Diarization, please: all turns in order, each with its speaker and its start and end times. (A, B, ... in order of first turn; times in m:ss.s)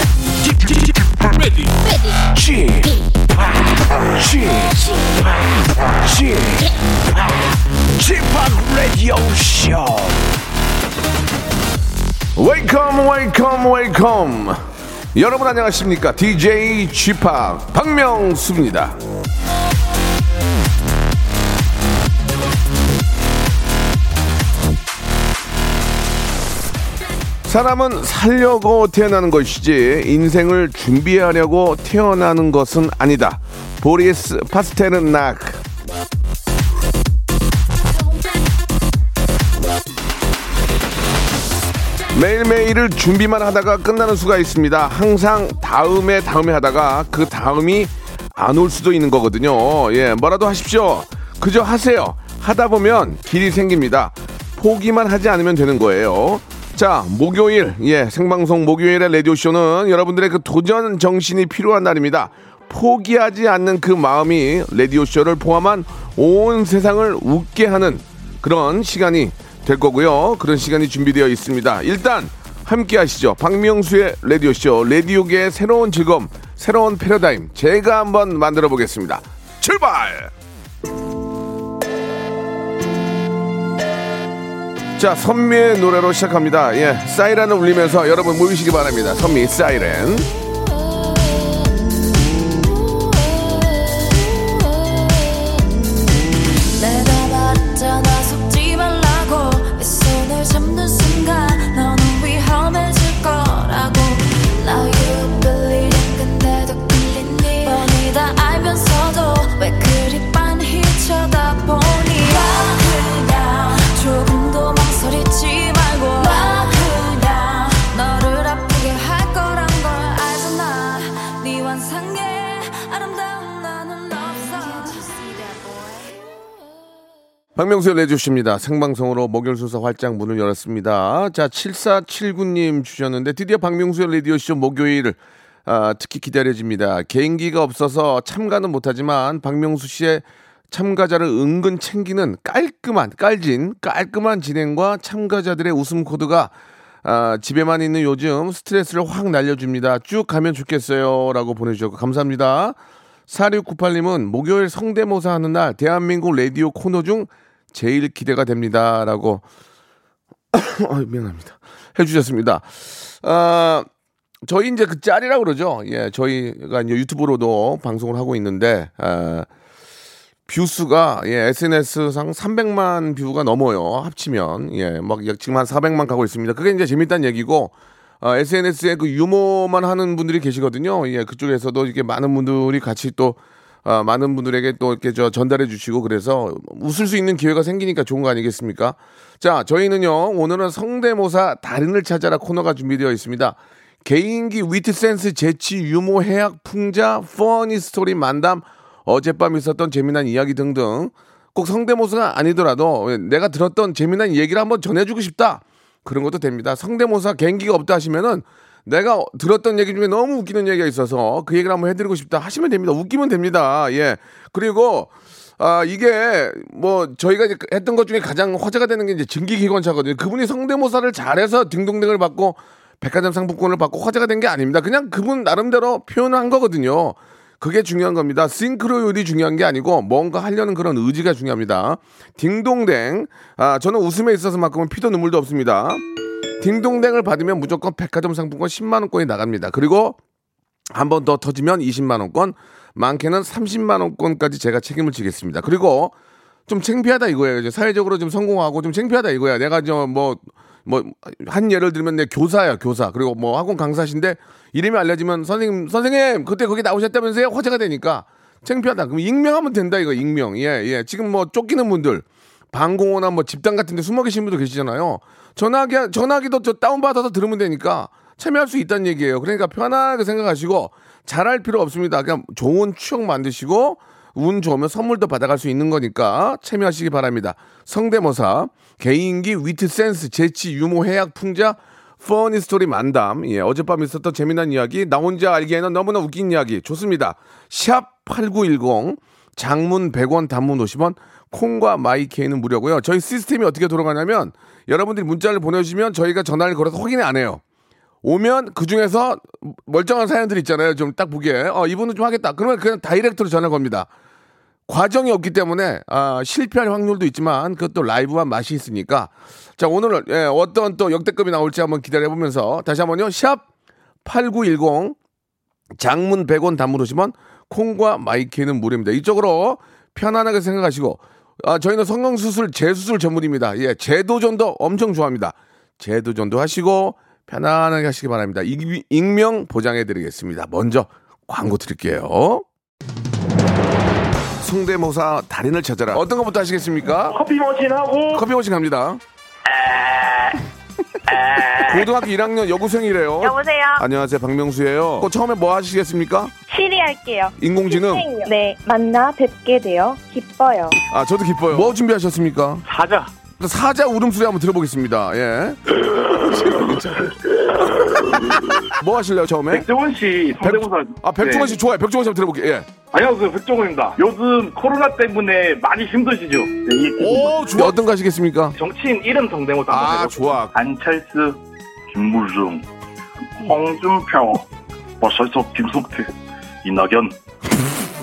0:00.4-0:01.7 A
0:02.3-0:10.4 A
0:12.4-0:19.0 B
0:27.5-0:35.6 B
0:42.1-1:20.3 B
1:25.0-1:30.3 B
1:31.0-1:31.7 C
1:32.9-1:35.7 C
1:36.7-2:05.4 C
2:07.6-2:26.5 B
2:27.0-2:32.8 B
2:33.3-2:39.4 B
2:40.5-2:43.9 B
2:44.4-2:49.5 B
2:50.5-3:56.0 B
3:56.6-4:00.2 B
4:00.9-4:06.1 B
4:06.7-4:57.6 B
4:58.2-5:04.1 B
5:04.9-5:13.6 B
5:14.2-5:15.2 B
5:16.0-5:32.6 B
5:34.6-5:37.4 B
5:37.3-5:38.4 D
5:38.3-5:39.2 B
5:39.7-5:40.5 D
5:41.3-5:41.9 D
5:41.9-5:46.5 B
5:43.4-5:44.0 E
5:46.7-5:51.0 E
5:47.6-5:48.3 B
5:51.1-5:52.8 B
5:52.9-5:53.3 D
5:53.6-5:57.4 B
5:58.5-5:59.9 B
5:59.7-6:01.8 D
6:00.6-6:02.9 B
6:03.1-6:08.0 D
6:07.2-6:08.8 B
6:08.8-6:12.8 D
6:09.9-6:10.7 B
6:13.6-6:14.7 D
6:15.2-6:16.3 D
6:16.8-6:17.4 D